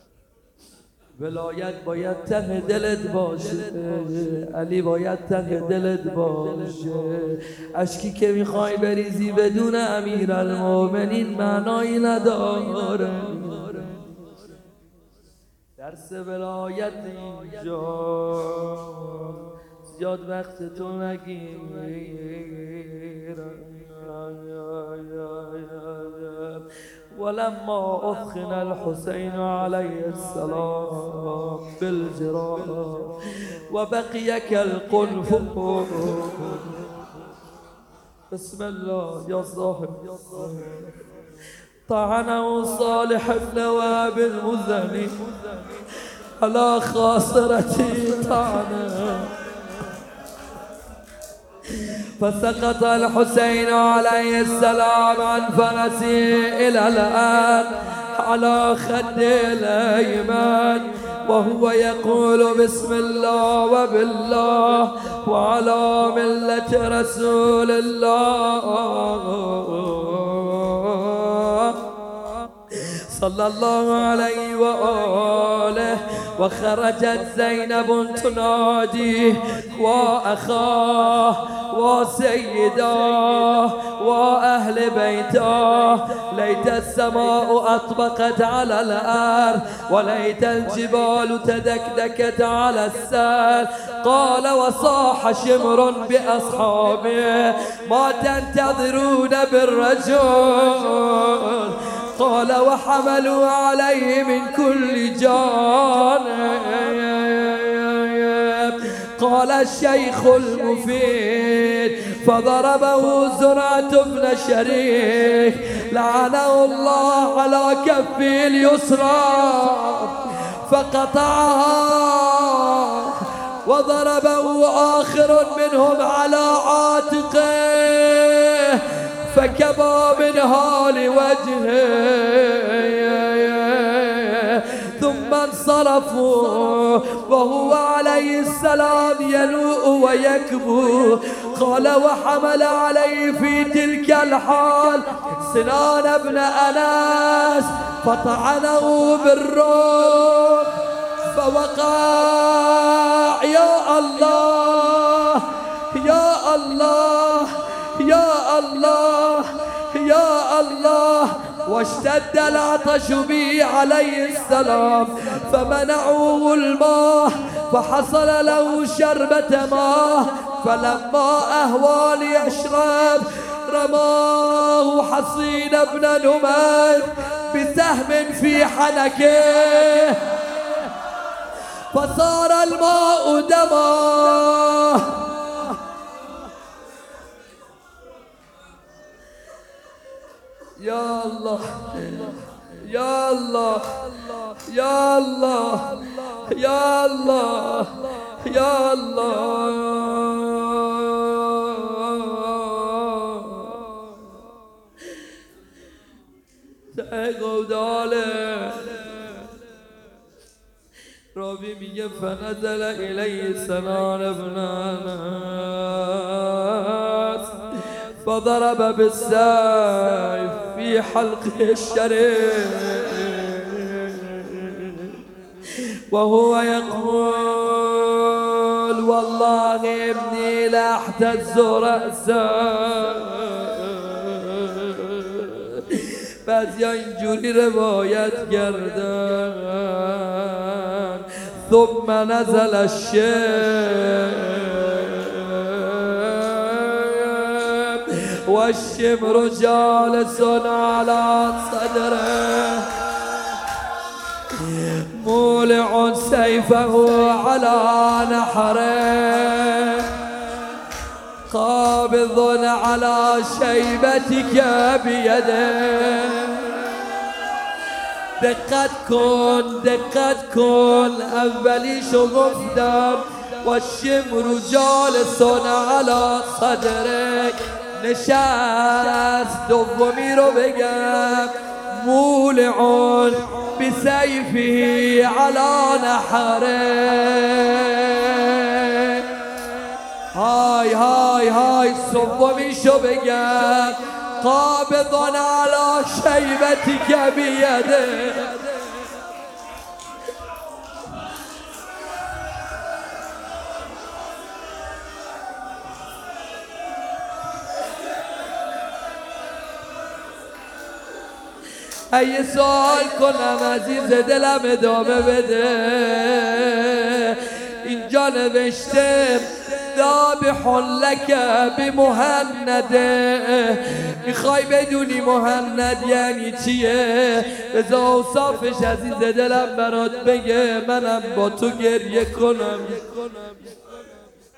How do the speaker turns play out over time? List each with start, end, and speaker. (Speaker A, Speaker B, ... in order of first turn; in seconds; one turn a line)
Speaker A: 1.2-14.4
Speaker A: 15.8-36.9
Speaker A: 38.3-41.0
Speaker A: 41.9-49.4
Speaker A: 51.6-181.0
Speaker A: 181.9-185.8
Speaker A: 190.8-204.2
Speaker A: 206.9-209.5
Speaker A: 211.3-253.0
Speaker A: 254.5-260.8
Speaker A: 261.5-267.2
Speaker A: 268.4-289.8
Speaker A: 290.3-299.1
Speaker A: 312.1-333.8